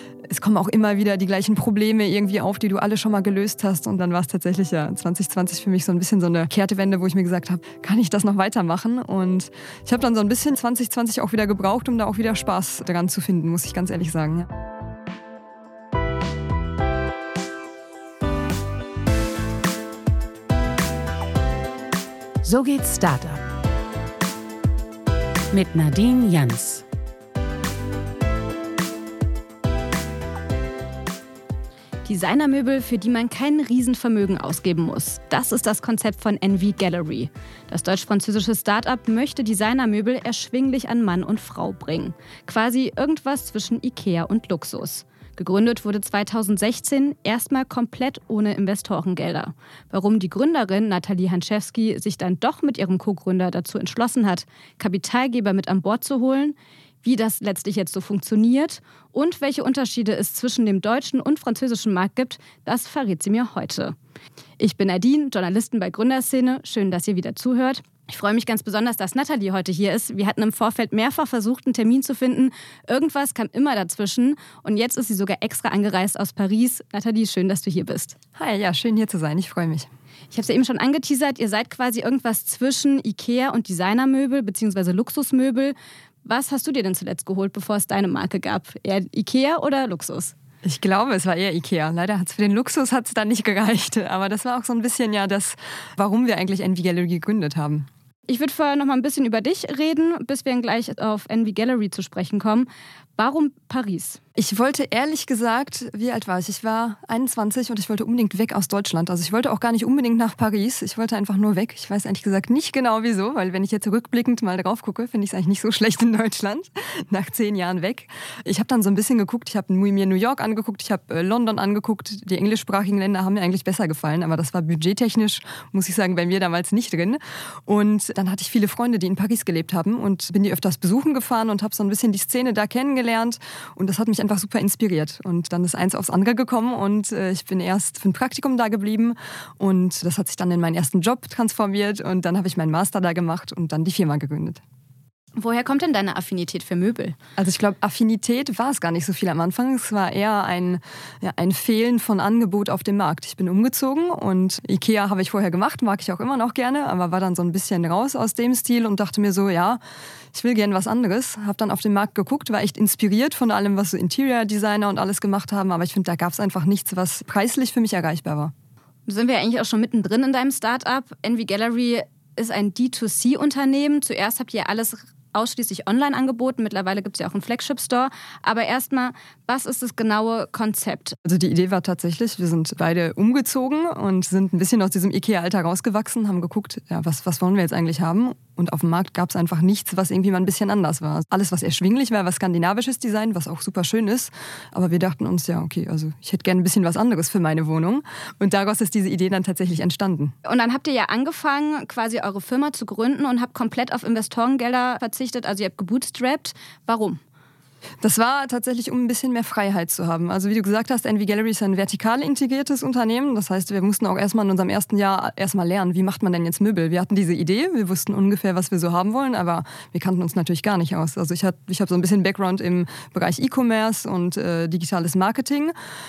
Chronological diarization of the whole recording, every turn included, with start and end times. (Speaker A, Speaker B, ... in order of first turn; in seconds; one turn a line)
Speaker A: 0.3-14.5
Speaker B: 22.4-23.4
Speaker B: 25.5-26.8
Speaker C: 32.0-64.0
Speaker C: 64.6-78.2
Speaker A: 78.4-79.9
Speaker C: 80.3-90.3
Speaker A: 90.6-97.9
Speaker C: 98.3-104.2
Speaker A: 104.4-144.6
Speaker C: 145.4-147.2
Speaker A: 147.4-159.8
Speaker A: 160.3-168.5
Speaker C: 169.1-181.2
Speaker A: 181.2-200.3
Speaker C: 200.4-207.2
Speaker A: 208.0-225.7